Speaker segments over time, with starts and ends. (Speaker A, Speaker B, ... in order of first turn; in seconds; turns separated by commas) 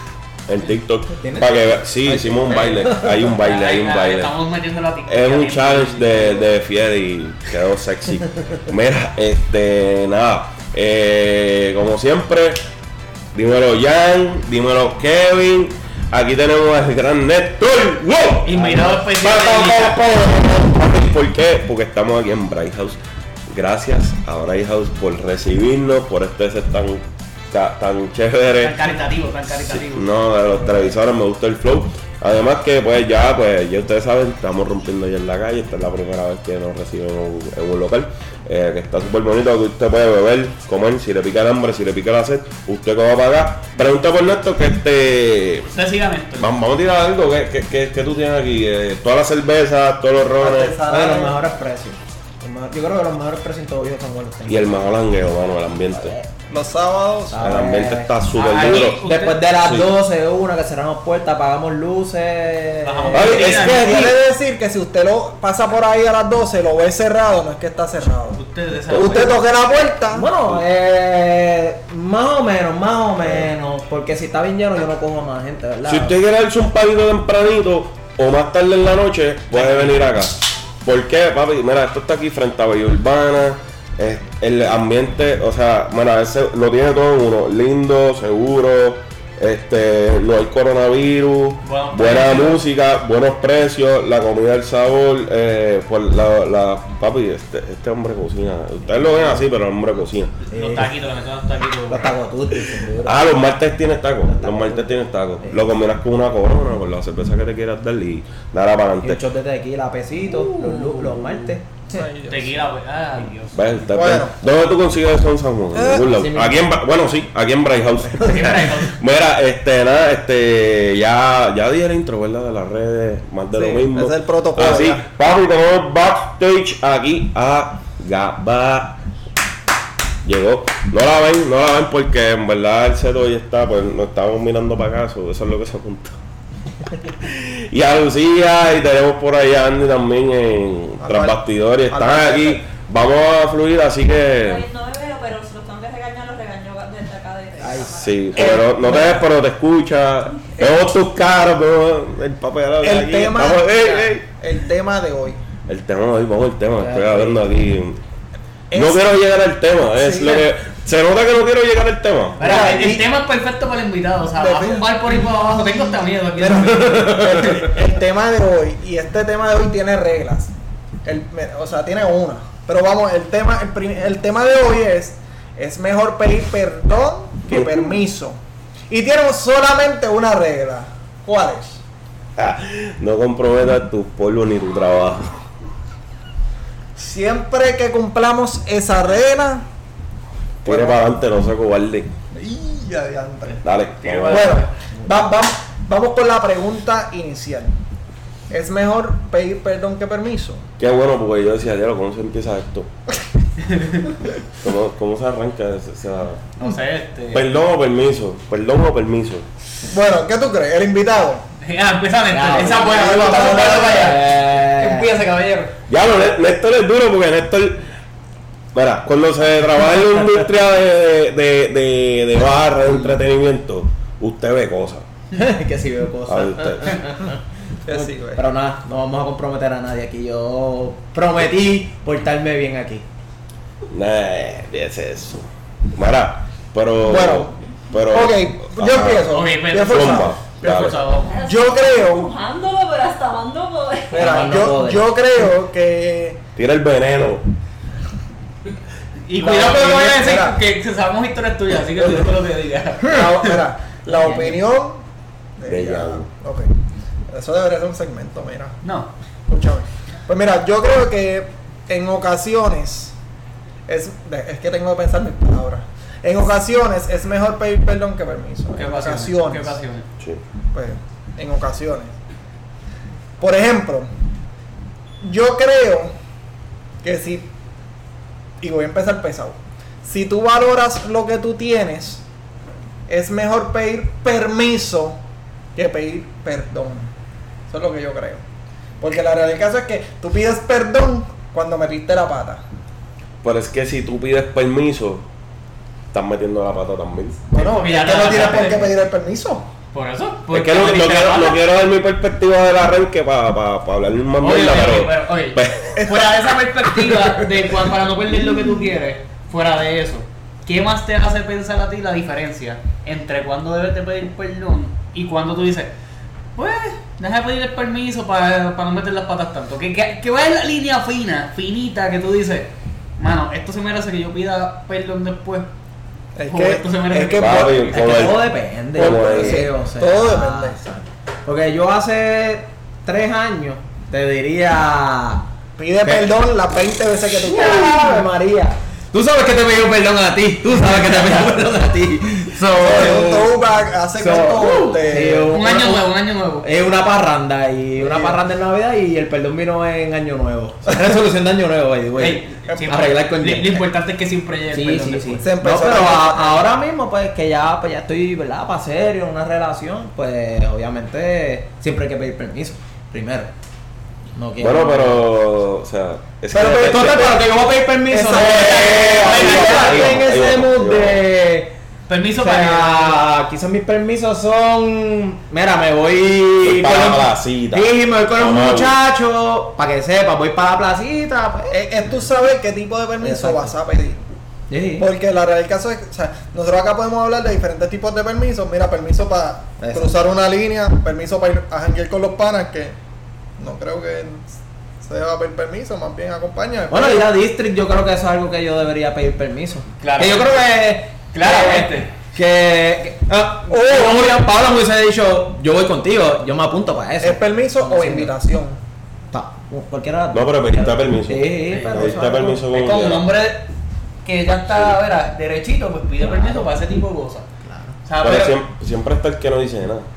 Speaker A: 0.5-4.3, Speaker B: 1.2-3.3, Speaker C: 3.2-6.5, Speaker A: 5.1-12.6, Speaker A: 13.3-28.8, Speaker C: 18.4-20.1, Speaker C: 28.6-30.1, Speaker A: 29.6-45.7, Speaker C: 45.7-46.6, Speaker A: 46.4-50.7, Speaker D: 50.4-51.4, Speaker B: 50.9-54.9, Speaker A: 54.5-56.1, Speaker B: 55.9-56.3, Speaker D: 56.5-57.5, Speaker B: 57.3-63.8, Speaker A: 57.4-59.0, Speaker C: 58.3-59.4, Speaker A: 59.6-59.9, Speaker C: 62.8-64.0, Speaker A: 63.1-64.1, Speaker D: 63.2-70.3, Speaker C: 68.3-69.4, Speaker A: 68.9-69.4, Speaker B: 70.1-76.2, Speaker A: 75.8-100.4, Speaker C: 79.5-80.1, Speaker C: 91.6-92.6, Speaker C: 100.5-102.2, Speaker B: 100.5-100.9, Speaker B: 101.9-103.4, Speaker A: 103.0-109.2, Speaker B: 104.3-105.6, Speaker B: 109.0-112.0, Speaker A: 111.0-111.5, Speaker D: 111.9-112.7, Speaker C: 112.3-113.8, Speaker A: 113.5-129.0, Speaker D: 113.9-114.3, Speaker D: 115.7-116.1, Speaker B: 116.0-116.6, Speaker C: 118.2-119.0, Speaker D: 123.5-125.1, Speaker A: 130.2-136.2, Speaker A: 137.0-144.6, Speaker D: 141.0-142.6, Speaker E: 144.4-148.3, Speaker B: 147.6-147.9, Speaker A: 147.9-154.2, Speaker D: 148.3-149.2, Speaker D: 150.6-150.9, Speaker D: 152.8-155.4, Speaker A: 155.7-158.0, Speaker B: 156.8-157.4, Speaker D: 158.7-159.2, Speaker A: 158.7-162.8, Speaker D: 159.9-160.5, Speaker C: 162.4-167.3, Speaker D: 162.4-163.1, Speaker D: 164.4-165.3, Speaker D: 166.3-170.5, Speaker D: 171.0-178.4, Speaker D: 178.9-181.8, Speaker A: 182.4-185.4, Speaker D: 186.9-189.6, Speaker D: 190.6-191.2, Speaker A: 190.6-192.1, Speaker D: 192.3-193.6, Speaker C: 193.5-194.7, Speaker A: 193.6-194.6, Speaker D: 194.3-197.7, Speaker D: 198.5-200.7, Speaker A: 200.8-202.9, Speaker C: 203.6-204.1, Speaker A: 204.6-206.5, Speaker C: 206.6-207.5, Speaker A: 207.3-209.4, Speaker D: 209.9-211.4, Speaker C: 211.6-215.7, Speaker B: 212.3-215.1, Speaker D: 212.6-214.2, Speaker A: 215.9-217.8, Speaker A: 218.7-225.1, Speaker B: 222.9-223.2, Speaker B: 225.3-233.0, Speaker A: 226.3-227.0, Speaker D: 227.8-228.4, Speaker A: 233.9-239.3, Speaker D: 237.0-237.6, Speaker D: 238.1-242.3, Speaker C: 239.3-241.3, Speaker A: 239.9-241.1, Speaker E: 241.2-244.5, Speaker B: 244.1-245.1, Speaker D: 244.1-246.4, Speaker A: 246.6-247.4, Speaker C: 249.3-253.6, Speaker D: 249.4-250.6, Speaker D: 253.0-255.0, Speaker D: 255.6-256.7, Speaker A: 255.7-256.2, Speaker D: 257.3-258.8, Speaker C: 258.8-259.1, Speaker D: 259.5-263.1, Speaker D: 263.9-269.8, Speaker C: 268.7-270.1, Speaker D: 270.7-272.1, Speaker D: 273.4-274.1, Speaker D: 275.2-276.1, Speaker D: 277.0-277.5, Speaker D: 278.6-282.2, Speaker D: 283.1-285.2, Speaker D: 285.8-287.1, Speaker D: 287.7-288.4, Speaker D: 289.0-292.6, Speaker A: 293.4-295.2, Speaker A: 296.1-297.5, Speaker D: 297.5-299.7, Speaker C: 297.5-298.9, Speaker C: 299.9-301.6, Speaker A: 300.5-306.0, Speaker C: 304.4-315.9, Speaker D: 305.9-306.3, Speaker C: 316.6-325.7, Speaker D: 326.4-327.9, Speaker C: 326.5-328.4, Speaker A: 327.3-328.4, Speaker B: 327.9-335.4, Speaker A: 328.9-329.6, Speaker D: 329.0-330.8, Speaker D: 335.8-338.3, Speaker B: 336.0-336.3, Speaker B: 337.4-343.5, Speaker D: 342.7-345.5, Speaker B: 344.2-353.8, Speaker C: 345.5-346.7, Speaker D: 348.0-348.4, Speaker D: 350.9-351.1, Speaker C: 352.2-355.4, Speaker D: 352.7-352.9, Speaker B: 354.7-363.5, Speaker D: 355.4-356.6, Speaker B: 364.3-365.2, Speaker A: 364.6-367.4, Speaker D: 366.5-367.4, Speaker B: 366.8-371.7, Speaker D: 368.1-370.2, Speaker C: 368.3-370.2, Speaker A: 368.7-371.2, Speaker C: 372.1-373.2, Speaker B: 372.4-381.7, Speaker A: 376.6-378.9, Speaker D: 381.7-384.2, Speaker B: 383.2-383.7, Speaker B: 384.7-385.1, Speaker D: 385.0-392.9, Speaker B: 389.8-390.1, Speaker D: 393.6-394.5, Speaker D: 395.0-397.3, Speaker B: 396.9-408.3, Speaker C: 400.0-400.6, Speaker C: 401.3-402.1, Speaker D: 403.7-404.5, Speaker D: 407.2-408.8, Speaker B: 409.3-412.6, Speaker A: 410.3-413.3, Speaker C: 411.7-413.7, Speaker C: 414.2-417.5, Speaker B: 416.2-416.7, Speaker B: 417.6-418.0, Speaker C: 418.1-418.6, Speaker A: 418.2-420.1